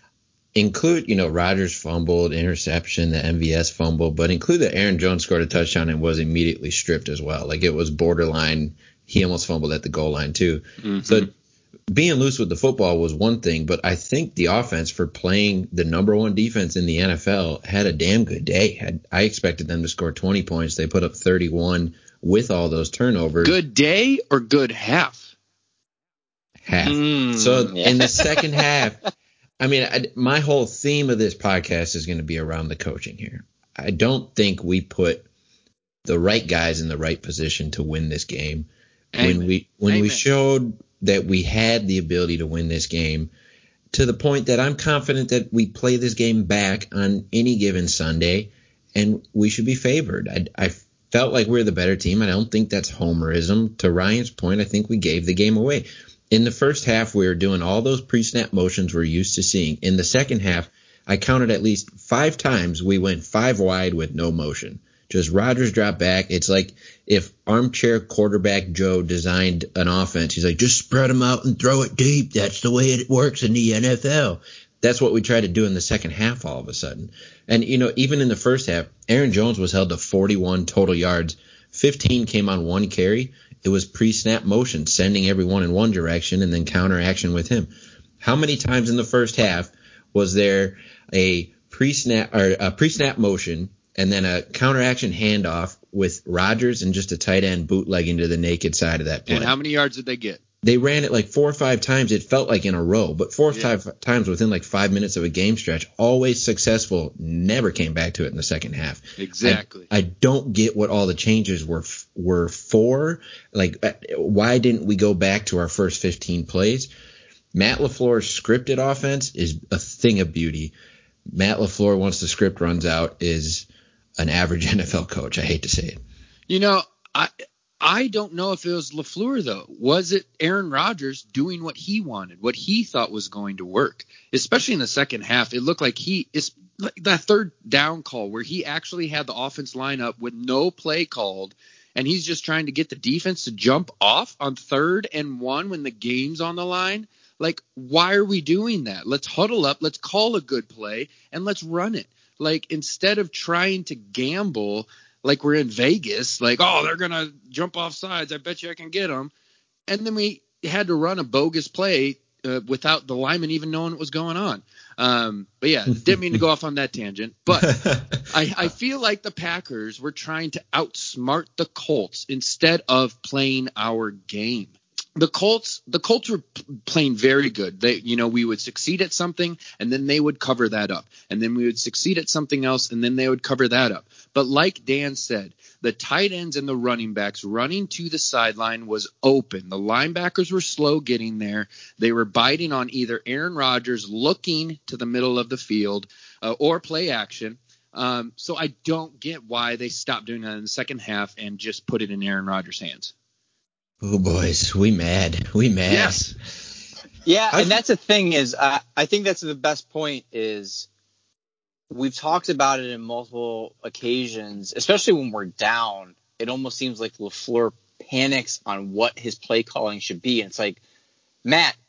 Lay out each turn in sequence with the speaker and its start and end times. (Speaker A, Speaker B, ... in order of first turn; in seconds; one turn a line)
Speaker A: 0.6-11.3
Speaker B: 10.8-11.3
Speaker A: 11.9-23.6
Speaker B: 23.4-25.3
Speaker A: 26.6-29.0
Speaker C: 26.8-28.6
Speaker A: 29.6-35.3
Speaker A: 36.0-43.3
Speaker B: 39.1-40.2
Speaker A: 43.9-99.5
Speaker B: 99.3-100.4
Speaker A: 100.6-116.9
Speaker B: 109.2-109.9
Speaker A: 117.5-120.7
Speaker A: 121.3-123.7
Speaker A: 124.2-126.0
Speaker B: 126.5-159.3
Speaker B: 159.9-203.1
Speaker A: 167.6-168.7
Speaker A: 204.0-206.4
Speaker B: 205.9-206.3
Speaker C: 207.2-210.9
Speaker A: 207.5-207.8
Speaker C: 211.9-220.8
Speaker C: 221.4-221.8